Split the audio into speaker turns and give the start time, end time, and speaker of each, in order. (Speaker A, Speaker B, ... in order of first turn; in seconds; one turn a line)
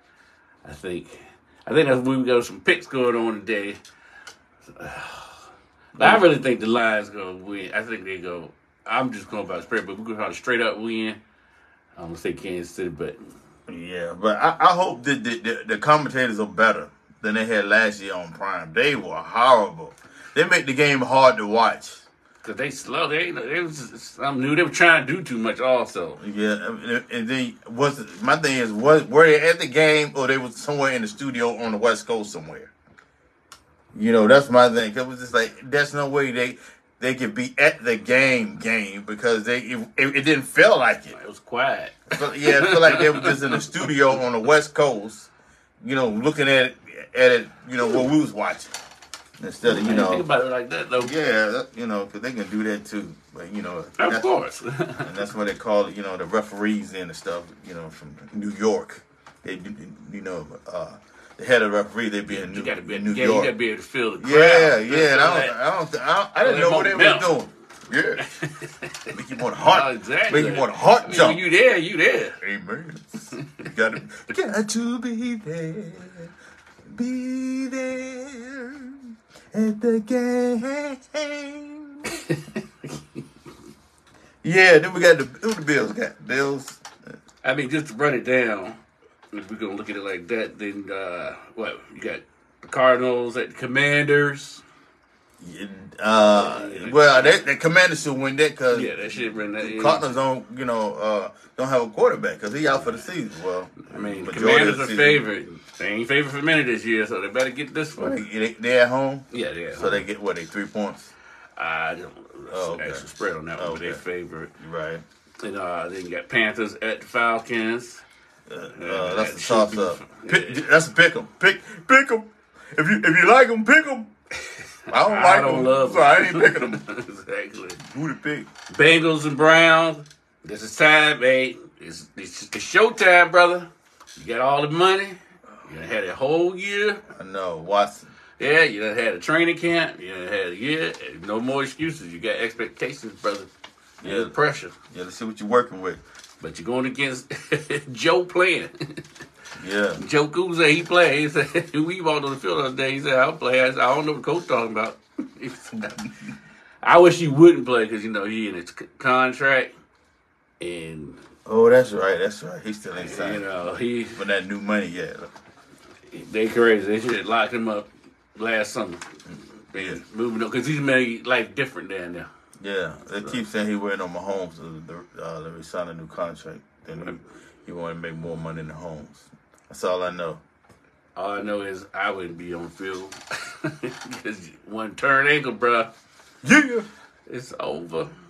Speaker A: 0.6-3.8
Speaker A: 4.7-5.4
Speaker B: 5.9-6.3
Speaker A: 6.0-11.2
Speaker A: 12.0-13.2
Speaker B: 13.7-22.0
Speaker A: 22.4-26.2
Speaker B: 26.2-32.7
Speaker B: 33.9-41.1
Speaker A: 41.1-43.9
Speaker B: 42.1-45.3
Speaker B: 45.8-48.7
Speaker B: 49.4-50.2
Speaker A: 49.6-51.1
Speaker B: 51.0-54.3
Speaker A: 54.0-55.1
Speaker B: 55.0-63.5
Speaker A: 62.3-65.5
Speaker B: 64.2-68.2
Speaker A: 66.4-67.3
Speaker A: 68.3-68.9
Speaker B: 69.1-71.4
Speaker A: 69.6-72.3
Speaker B: 72.4-76.3
Speaker B: 76.8-82.1
Speaker A: 82.1-83.0
Speaker B: 84.4-86.8
Speaker A: 87.4-88.8
Speaker A: 89.3-94.6
Speaker B: 95.4-105.2
Speaker A: 96.2-97.4
Speaker A: 98.7-100.1
Speaker A: 102.6-103.1
Speaker A: 103.8-108.2
Speaker B: 108.0-111.1
Speaker A: 109.3-110.0
Speaker A: 111.6-114.5
Speaker B: 112.5-113.0
Speaker B: 113.6-114.0
Speaker B: 114.6-115.0
Speaker A: 115.4-118.0
Speaker B: 118.5-124.1
Speaker A: 118.7-120.7
Speaker A: 124.9-127.8
Speaker B: 124.9-126.8
Speaker B: 127.8-128.5
Speaker A: 128.7-137.0
Speaker B: 137.1-138.1
Speaker A: 138.4-143.5
Speaker B: 144.0-144.3
Speaker A: 144.0-144.7
Speaker B: 144.9-146.0
Speaker A: 146.4-149.0
Speaker B: 149.6-150.0
Speaker A: 150.0-156.0
Speaker A: 156.8-159.7
Speaker A: 160.6-161.2
Speaker B: 161.4-165.3
Speaker A: 162.9-164.2
Speaker A: 166.1-169.1
Speaker A: 169.7-172.3
Speaker B: 169.7-170.0
Speaker B: 172.6-180.4
Speaker A: 173.2-173.4
Speaker A: 181.1-185.9
Speaker B: 186.4-186.9
Speaker A: 187.3-188.1